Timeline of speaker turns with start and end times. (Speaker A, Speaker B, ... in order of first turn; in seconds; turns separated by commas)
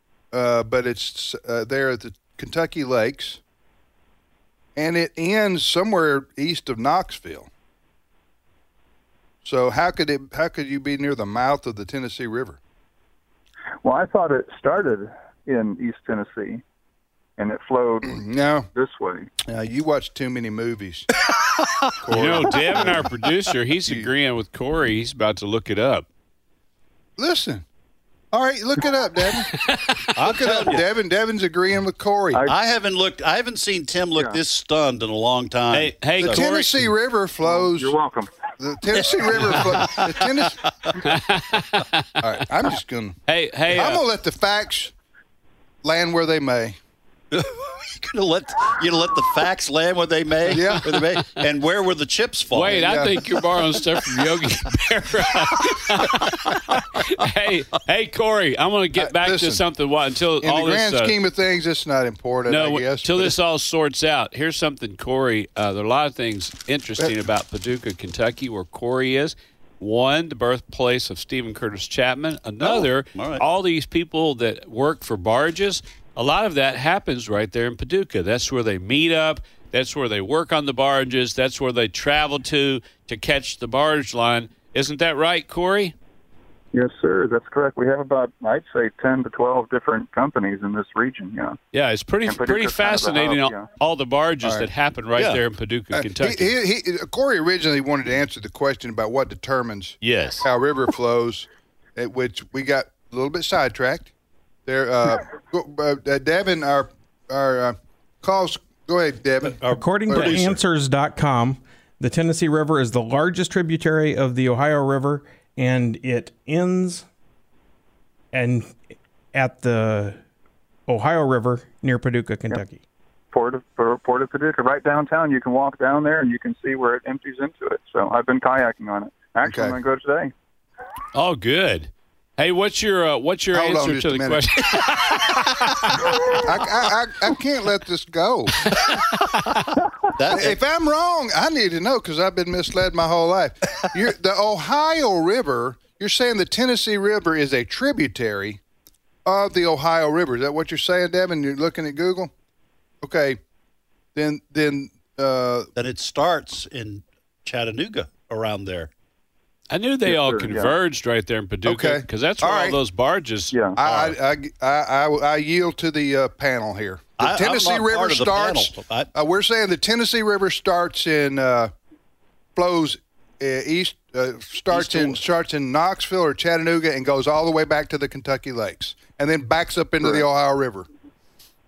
Speaker A: 0.3-3.4, Speaker A: 4.8-7.5, Speaker A: 9.4-12.6, Speaker B: 13.8-16.6, Speaker B: 17.4-18.2, Speaker A: 18.1-18.7, Speaker B: 18.7-19.3, Speaker A: 19.4-21.1, Speaker A: 22.0-23.1, Speaker C: 22.1-26.1, Speaker A: 27.2-27.6, Speaker A: 28.3-29.5, Speaker D: 30.1-30.9, Speaker A: 30.2-32.4, Speaker D: 32.4-36.4, Speaker C: 35.7-36.8, Speaker A: 36.2-37.9, Speaker B: 37.4-38.3, Speaker A: 38.6-40.7, Speaker D: 39.0-40.2, Speaker C: 41.0-42.1, Speaker A: 42.2-43.2, Speaker C: 43.3-44.0, Speaker A: 43.7-44.9, Speaker A: 45.8-46.8, Speaker D: 47.3-53.0, Speaker A: 50.5-50.9, Speaker C: 50.9-51.4, Speaker C: 52.5-61.1, Speaker A: 52.7-53.1, Speaker A: 59.0-59.6, Speaker A: 60.4-63.3, Speaker C: 62.5-85.9, Speaker D: 72.6-73.4, Speaker B: 86.7-91.6, Speaker C: 91.7-96.5, Speaker B: 92.2-93.7, Speaker A: 95.9-104.1, Speaker C: 100.0-100.5, Speaker A: 104.7-110.4, Speaker D: 109.4-110.5, Speaker E: 109.8-117.0, Speaker E: 118.3-118.7, Speaker E: 119.3-120.2, Speaker E: 120.9-122.8, Speaker B: 123.3-130.3, Speaker A: 129.4-129.8, Speaker C: 131.1-136.1, Speaker A: 133.5-134.4, Speaker A: 136.3-138.6, Speaker D: 140.2-140.6, Speaker A: 140.3-148.6, Speaker A: 149.2-152.3, Speaker A: 153.0-153.4, Speaker A: 154.1-155.7, Speaker D: 155.7-158.9, Speaker C: 159.7-164.1, Speaker B: 160.1-160.7, Speaker A: 161.7-162.8, Speaker B: 163.5-163.8, Speaker A: 163.8-171.7, Speaker D: 167.2-169.1, Speaker A: 172.6-180.9, Speaker D: 174.7-175.2